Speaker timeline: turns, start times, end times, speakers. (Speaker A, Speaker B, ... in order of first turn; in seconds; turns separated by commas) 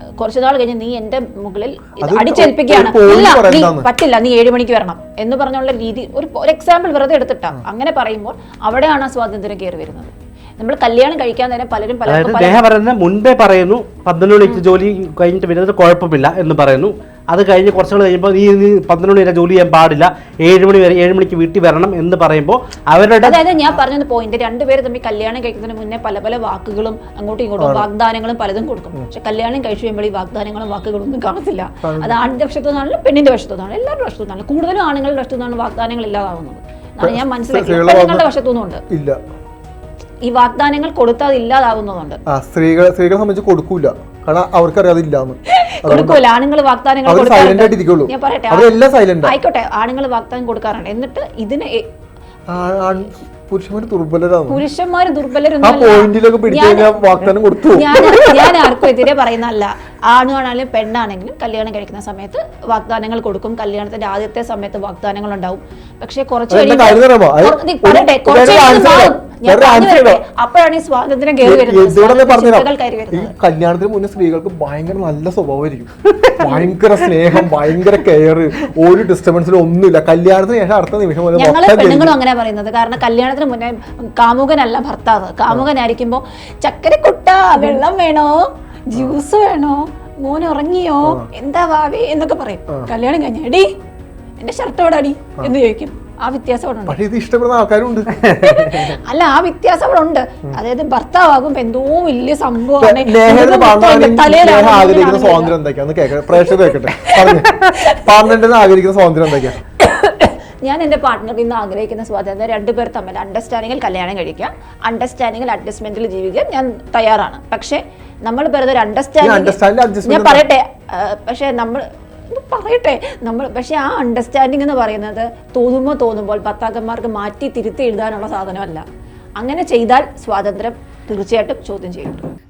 Speaker A: 0.2-12.6, Speaker B: 2.0-3.9, Speaker C: 12.1-23.4, Speaker A: 23.2-38.8, Speaker B: 27.6-27.9, Speaker B: 31.8-32.2, Speaker B: 37.0-38.2, Speaker B: 38.9-39.2, Speaker A: 40.2-42.2, Speaker B: 42.3-46.2, Speaker A: 45.6-51.9, Speaker B: 47.0-49.4, Speaker B: 52.5-54.6, Speaker A: 54.5-57.0, Speaker B: 55.6-58.9, Speaker A: 57.7-73.3, Speaker B: 66.5-70.2, Speaker B: 71.4-82.2, Speaker A: 81.3-93.7, Speaker B: 91.0-91.3, Speaker A: 94.4-97.0, Speaker B: 96.9-98.7, Speaker C: 98.2-98.9, Speaker A: 98.4-105.5, Speaker B: 102.8-109.6, Speaker A: 106.3-108.0, Speaker A: 109.8-128.8, Speaker B: 119.2-120.5, Speaker A: 129.4-132.2